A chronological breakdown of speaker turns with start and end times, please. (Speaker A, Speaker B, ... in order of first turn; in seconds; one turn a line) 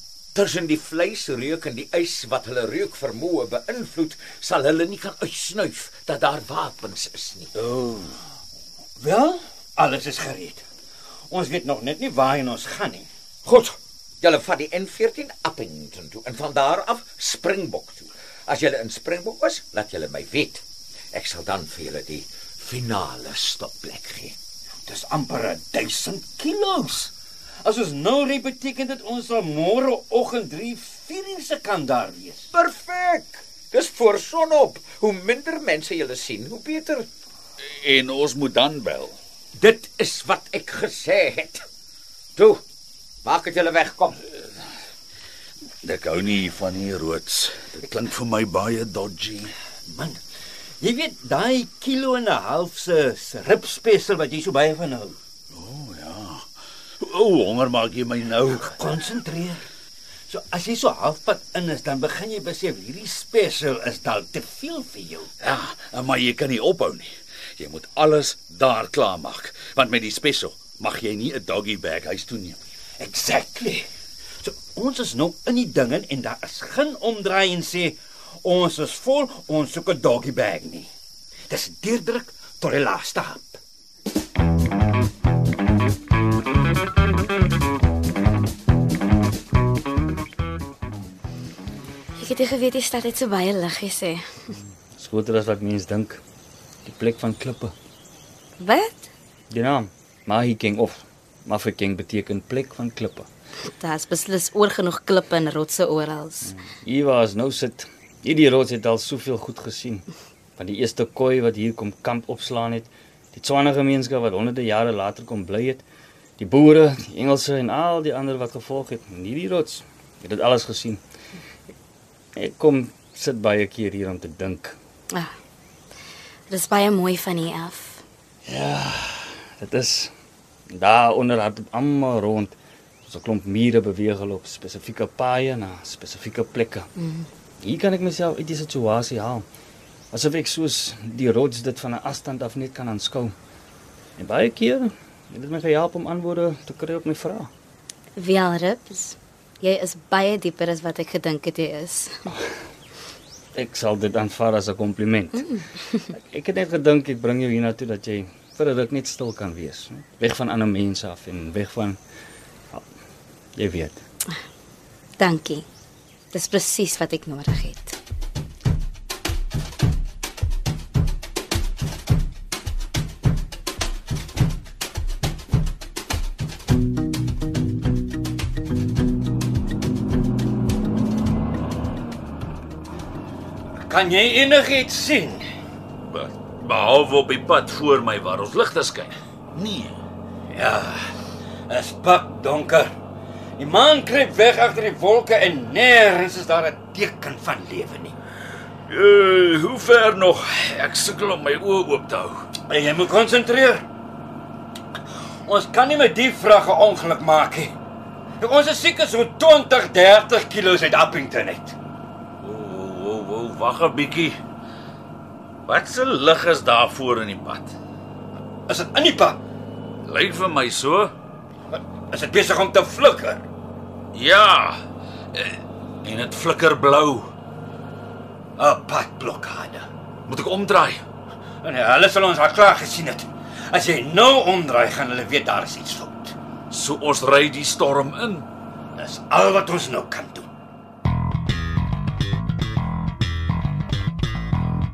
Speaker A: 0.3-7.5
Speaker B: 9.0-10.6
Speaker B: 11.3-13.1
Speaker A: 13.4-20.6
Speaker A: 21.1-24.3
Speaker B: 24.9-27.1
Speaker B: 27.6-32.5
Speaker A: 32.5-37.1
Speaker C: 37.6-39.2
Speaker A: 39.6-41.6
Speaker A: 42.4-42.6
Speaker A: 43.2-44.2
Speaker C: 45.8-49.5
Speaker B: 49.9-50.2
Speaker B: 50.8-55.1
Speaker C: 55.5-56.5
Speaker C: 57.0-58.8
Speaker B: 58.6-59.7
Speaker B: 60.3-65.3
Speaker C: 65.4-72.6
Speaker B: 73.0-73.9
Speaker B: 74.4-80.9
Speaker B: 81.5-83.6
Speaker D: 92.2-94.5
Speaker E: 94.9-96.2
Speaker E: 96.8-97.7
Speaker D: 98.6-99.1
Speaker E: 99.5-103.3
Speaker D: 103.8-106.5
Speaker E: 106.4-115.8
Speaker E: 116.4-121.0
Speaker E: 122.3-124.8
Speaker D: 126.5-128.0
Speaker E: 128.4-130.1
Speaker E: 130.7-136.9
Speaker D: 137.0-137.3
Speaker E: 137.6-139.4
Speaker E: 140.1-143.3
Speaker E: 144.2-147.5
Speaker D: 148.2-152.3
Speaker E: 153.5-155.5
Speaker D: 155.3-156.0
Speaker E: 156.1-162.0
Speaker E: 163.6-164.0
Speaker D: 165.2-165.7
Speaker D: 166.3-167.9
Speaker B: 183.8-185.4
Speaker C: 186.1-190.0
Speaker B: 190.5-191.1
Speaker B: 191.7-192.9
Speaker B: 193.6-198.2
Speaker C: 198.9-202.4
Speaker B: 202.7-203.8
Speaker B: 205.4-207.7
Speaker B: 208.4-211.8
Speaker C: 212.4-214.4
Speaker C: 215.6-217.7
Speaker B: 218.7-219.4
Speaker C: 220.0-221.1
Speaker B: 221.7-223.4
Speaker C: 224.1-224.8
Speaker C: 225.3-227.3
Speaker B: 228.6-229.9
Speaker C: 230.3-231.0
Speaker B: 231.6-236.3
Speaker C: 236.7-238.5
Speaker B: 238.9-240.5